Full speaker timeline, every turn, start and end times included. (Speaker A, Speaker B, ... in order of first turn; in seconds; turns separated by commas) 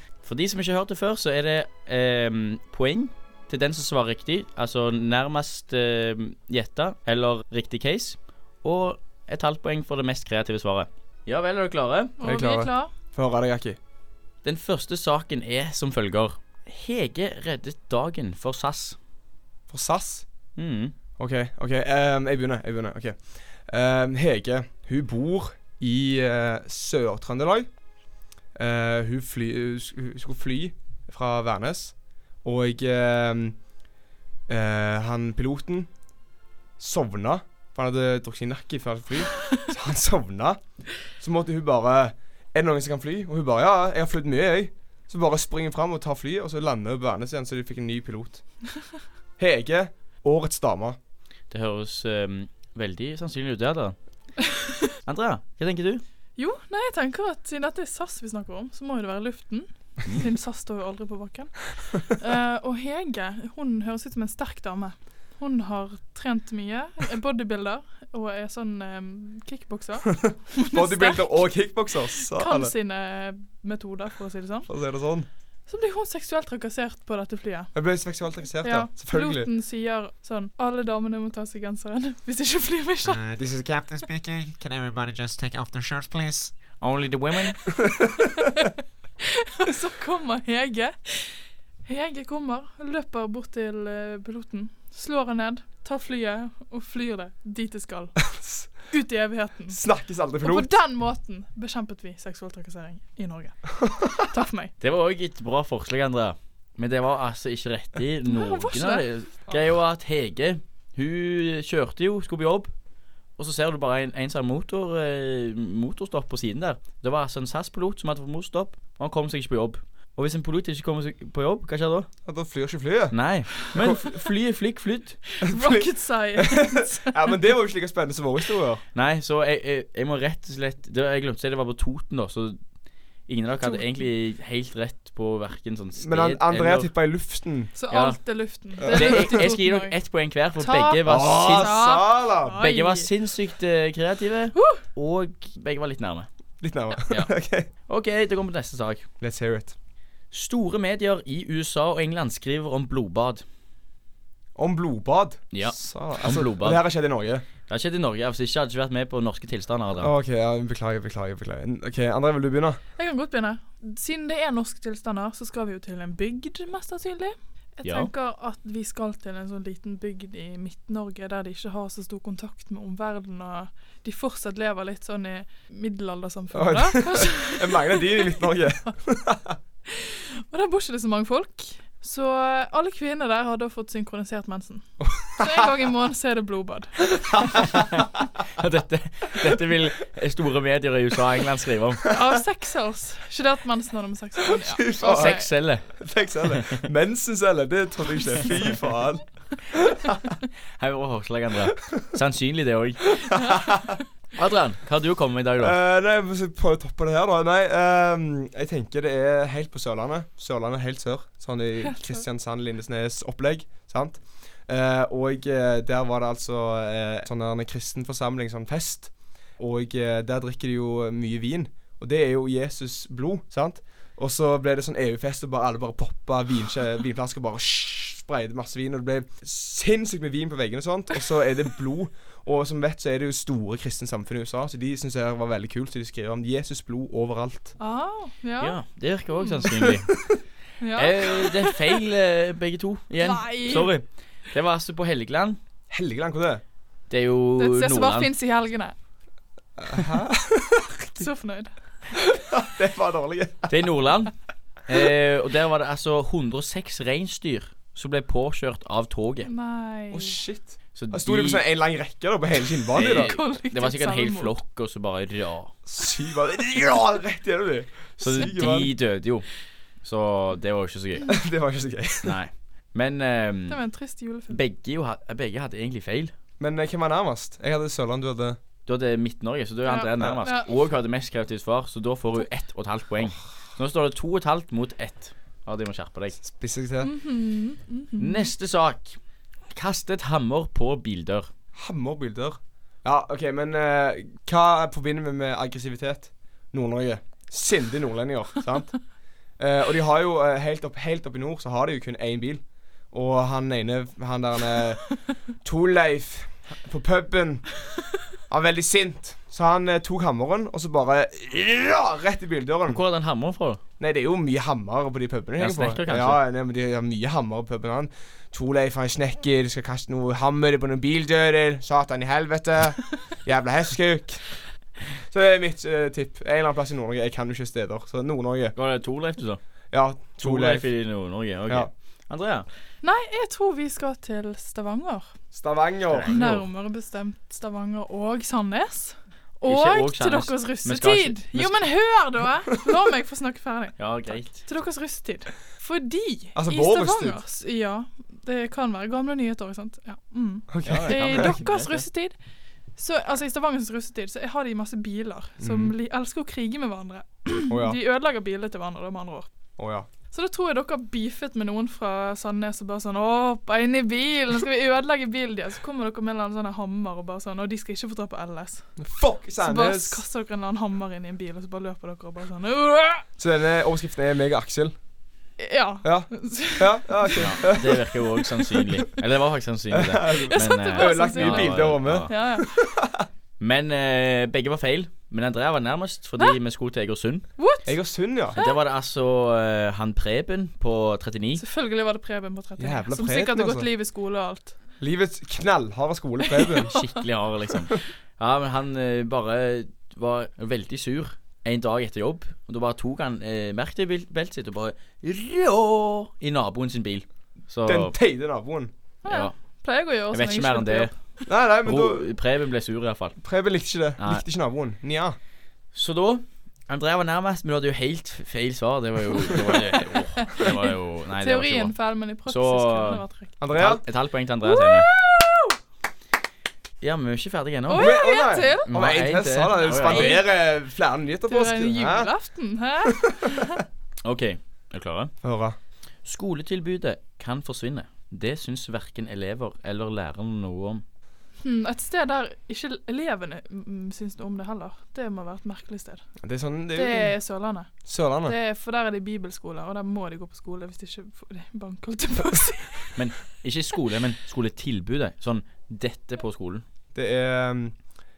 Speaker A: 0.2-12.1, Speaker B: 12.2-12.9, Speaker C: 12.2-13.8, Speaker A: 14.4-19.0, Speaker C: 19.7-20.2, Speaker A: 20.6-20.9, Speaker C: 21.2-27.7, Speaker C: 28.5-33.6, Speaker C: 34.5-35.9, Speaker C: 36.8-40.6, Speaker C: 41.1-48.4, Speaker C: 49.4-51.0, Speaker A: 51.5-54.0, Speaker A: 55.0-56.0, Speaker B: 56.4-71.5, Speaker C: 70.2-72.7, Speaker B: 72.1-74.7, Speaker C: 74.7-75.3, Speaker B: 75.7-77.7, Speaker C: 77.7-79.5, Speaker B: 78.6-83.2, Speaker D: 83.0-86.5, Speaker C: 83.4-83.7, Speaker A: 86.8-87.6, Speaker B: 88.4-88.7, Speaker B: 89.4-98.2, Speaker C: 98.3-98.7, Speaker B: 98.9-99.8, Speaker C: 99.7-100.7, Speaker B: 100.4-104.7, Speaker C: 103.8-104.1, Speaker A: 104.8-112.7, Speaker B: 108.2-109.0, Speaker A: 113.4-122.1, Speaker C: 122.2-124.0, Speaker A: 123.1-125.2, Speaker B: 125.4-127.3, Speaker C: 125.4-128.8, Speaker A: 128.9-132.6, Speaker A: 133.3-136.9, Speaker C: 136.0-137.7, Speaker B: 137.8-139.9, Speaker A: 137.9-138.2, Speaker A: 138.8-141.8, Speaker C: 138.8-139.4, Speaker B: 140.6-143.1, Speaker C: 141.0-142.6, Speaker A: 142.6-146.3, Speaker B: 144.5-144.8, Speaker C: 146.6-147.7, Speaker A: 147.0-147.3, Speaker A: 147.9-149.1, Speaker C: 149.2-149.7, Speaker A: 150.3-153.4, Speaker C: 154.6-157.4, Speaker A: 155.5-156.8, Speaker A: 157.7-160.1, Speaker C: 160.0-162.8, Speaker B: 163.0-178.4, Speaker A: 167.8-168.1, Speaker C: 176.5-179.6, Speaker B: 179.9-187.6, Speaker C: 185.0-185.6, Speaker C: 187.2-187.9, Speaker A: 188.6-192.0, Speaker B: 192.1-195.5, Speaker C: 194.5-195.4, Speaker A: 195.0-195.9, Speaker C: 195.9-200.2, Speaker A: 196.5-196.8, Speaker A: 200.8-203.1, Speaker C: 203.3-203.9, Speaker B: 203.3-203.7, Speaker A: 204.3-205.8, Speaker C: 205.6-237.7, Speaker B: 237.8-238.8, Speaker A: 238.6-240.1, Speaker B: 239.3-239.7, Speaker B: 240.8-242.0, Speaker A: 241.0-245.6, Speaker B: 243.2-243.9, Speaker C: 245.9-246.6, Speaker A: 247.1-248.3, Speaker B: 247.6-248.9, Speaker C: 249.8-251.2, Speaker B: 251.2-251.8, Speaker C: 252.2-253.9, Speaker A: 253.7-254.3, Speaker A: 254.9-259.5, Speaker B: 259.4-260.4, Speaker C: 260.1-263.3, Speaker A: 260.9-261.6, Speaker A: 262.9-265.7, Speaker B: 263.1-264.5, Speaker C: 265.9-268.9, Speaker A: 268.2-269.4, Speaker A: 270.0-271.3, Speaker C: 271.3-272.4, Speaker A: 272.2-273.8, Speaker B: 273.7-274.6, Speaker A: 274.5-276.3, Speaker C: 276.6-278.6, Speaker A: 278.9-286.4, Speaker B: 279.9-280.7, Speaker C: 286.4-287.1, Speaker B: 287.0-288.5, Speaker A: 288.2-289.2, Speaker A: 289.7-291.5, Speaker C: 291.8-298.9, Speaker C: 299.6-305.1, Speaker C: 305.6-307.7, Speaker C: 308.5-313.0, Speaker A: 312.9-313.8, Speaker C: 314.0-324.4, Speaker A: 315.6-316.4, Speaker C: 325.3-328.7, Speaker A: 328.8-329.6, Speaker C: 329.9-330.9, Speaker A: 330.4-332.7, Speaker B: 333.0-335.3, Speaker C: 335.5-336.6, Speaker A: 336.1-336.6, Speaker B: 336.3-352.3, Speaker A: 339.6-341.9, Speaker A: 344.0-344.6, Speaker C: 346.5-347.4, Speaker C: 350.7-351.6, Speaker A: 350.8-352.0, Speaker B: 353.0-359.5, Speaker C: 355.6-355.9, Speaker C: 357.7-358.0, Speaker C: 359.8-360.1, Speaker B: 360.3-368.9, Speaker C: 369.0-370.2, Speaker B: 369.6-373.2, Speaker C: 373.4-374.9, Speaker B: 375.6-377.7, Speaker C: 376.0-378.0, Speaker A: 377.4-382.3, Speaker C: 379.9-383.3, Speaker B: 380.3-382.8, Speaker A: 383.6-387.5, Speaker B: 387.6-387.9, Speaker C: 387.9-388.6, Speaker A: 388.6-391.6, Speaker B: 391.6-394.7, Speaker C: 392.8-393.9, Speaker C: 395.0-396.9, Speaker B: 396.6-397.0, Speaker A: 396.9-408.1, Speaker C: 407.8-408.9, Speaker B: 409.2-411.1, Speaker A: 409.3-409.5, Speaker A: 410.3-411.1, Speaker C: 411.4-412.3, Speaker A: 411.8-413.4, Speaker C: 413.4-415.4, Speaker A: 414.2-414.4, Speaker A: 415.9-421.9, Speaker B: 420.4-423.5, Speaker A: 422.4-423.2, Speaker C: 423.6-424.0, Speaker A: 423.7-425.1, Speaker B: 424.6-425.8, Speaker A: 427.0-428.1, Speaker B: 427.9-428.9, Speaker C: 427.9-432.3, Speaker A: 428.9-430.4, Speaker B: 429.8-430.4, Speaker B: 431.5-433.8, Speaker A: 434.2-435.3, Speaker C: 435.4-435.8, Speaker A: 436.2-441.0, Speaker B: 441.6-446.2, Speaker C: 446.4-447.4, Speaker B: 446.9-447.9, Speaker C: 448.0-448.5, Speaker B: 448.4-453.2, Speaker A: 453.1-456.8, Speaker C: 457.1-458.0